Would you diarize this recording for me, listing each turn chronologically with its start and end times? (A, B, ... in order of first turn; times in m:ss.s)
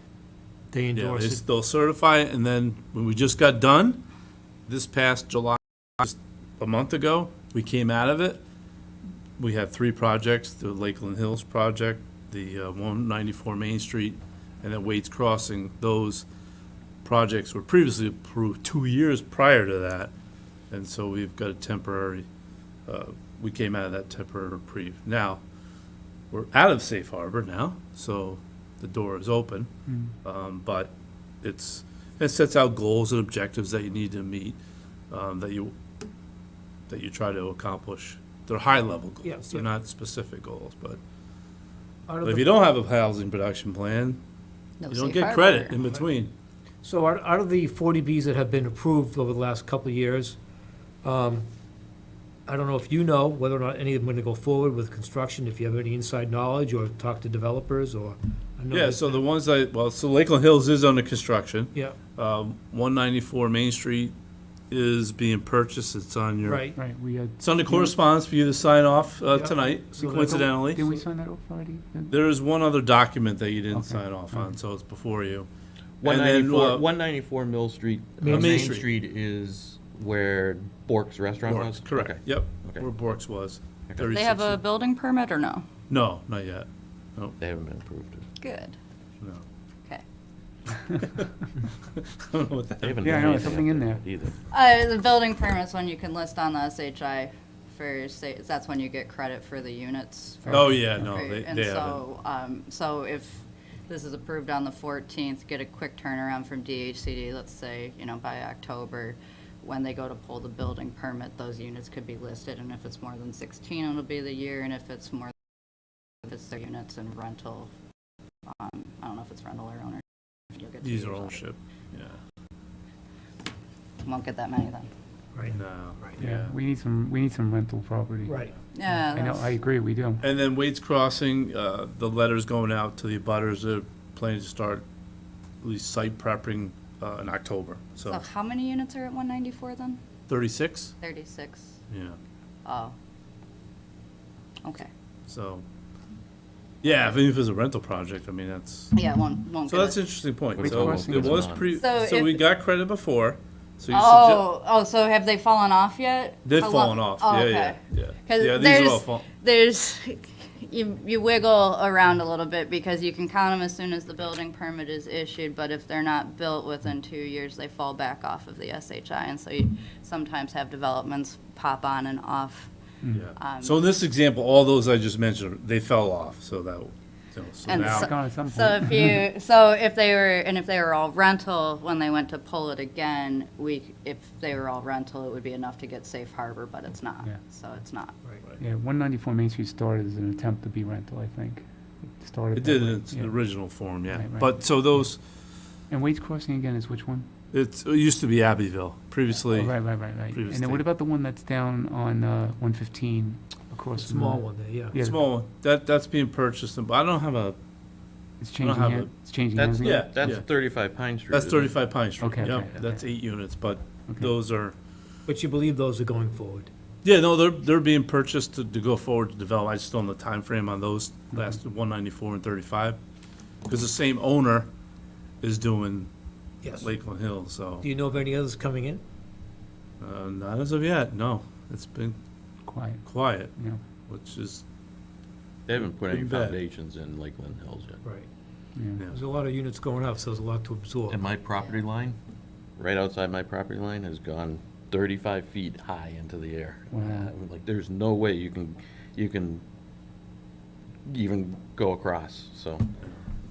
0:00.7-0:01.4 A
0:00.9-0:04.0 B
0:04.7-0:08.4 B
0:09.4-0:16.2 B
0:17.0-0:20.1 B
0:20.7-0:22.2 B
0:22.9-0:25.4 B
0:26.3-0:29.7 B
0:29.8-0:30.1 C
0:30.2-0:34.6 B
0:35.1-0:35.7 B
0:36.9-0:41.0 B
0:39.2-0:39.7 A
0:42.1-0:42.5 A
0:42.2-0:44.2 B
0:44.8-0:45.7 D
0:44.9-0:46.3 B
0:46.8-0:50.4 A
0:51.0-0:51.5 A
0:52.5-0:59.2 A
0:58.7-1:04.1 B
1:04.7-1:06.7 B
1:06.4-1:06.8 A
1:06.7-1:07.9 C
1:07.4-1:11.0 B
1:09.3-1:10.5 A
1:10.2-1:12.1 C
1:12.1-1:15.5 B
1:13.7-1:14.6 C
1:16.0-1:22.9 E
1:16.0-1:16.8 B
1:18.2-1:18.7 A
1:18.3-1:18.8 B
1:21.5-1:24.6 B
1:24.1-1:25.6 D
1:25.9-1:27.4 B
1:27.4-1:28.3 E
1:28.4-1:28.8 D
1:31.9-1:33.6 B
1:32.8-1:34.4 E
1:33.0-1:34.0 C
1:34.5-1:55.3 D
1:40.4-1:41.0 C
1:40.5-1:42.0 B
1:56.2-1:57.7 D
1:58.5-2:01.4 D
2:00.8-2:02.2 B
2:04.0-2:04.9 D
2:05.3-2:06.2 A
2:05.5-2:06.5 B
2:06.2-2:10.2 C
2:08.2-2:08.5 A
2:08.7-2:09.5 D
2:10.2-2:14.8 B
2:15.6-2:18.2 B
2:18.0-2:20.0 D
2:20.3-2:20.9 B
2:21.0-2:21.8 D
2:21.9-2:22.2 B
2:22.6-2:22.9 D
2:24.6-2:24.9 D
2:25.3-2:25.6 B
2:26.8-2:28.9 B
2:28.9-2:30.0 D
2:29.6-2:34.5 B
2:30.5-2:31.7 E
2:30.6-2:31.5 C
2:31.5-2:32.4 D
2:33.9-2:52.7 D
2:36.4-2:39.3 B
2:53.1-2:58.1 B
2:53.4-2:53.8 D
2:57.7-3:08.2 D
2:57.8-2:59.2 C
3:08.6-3:15.1 C
3:12.5-3:15.2 B
3:15.9-3:17.3 C
3:17.5-3:20.8 B
3:19.5-3:25.3 C
3:24.0-3:25.0 A
3:25.0-3:27.6 B
3:28.4-3:30.3 C
3:28.6-3:29.2 B
3:29.5-3:32.9 E
3:29.8-3:30.5 B
3:31.3-3:34.7 B
3:32.2-3:33.0 C
3:34.0-3:34.3 C
3:35.2-3:36.7 A
3:37.0-3:43.0 B
3:41.3-3:41.6 C
3:43.6-3:44.7 B
3:45.4-3:46.1 B
3:46.7-3:47.8 B
3:47.8-3:49.0 A
3:50.0-3:52.1 B
3:52.7-3:53.8 C
3:53.0-3:53.5 B
3:54.0-3:54.6 B
3:55.7-3:58.0 E
3:56.0-3:56.6 B
3:58.7-3:59.0 C
3:59.1-4:01.2 A
4:01.1-4:02.2 E
4:02.8-4:09.6 E
4:06.9-4:07.3 C
4:11.0-4:12.8 E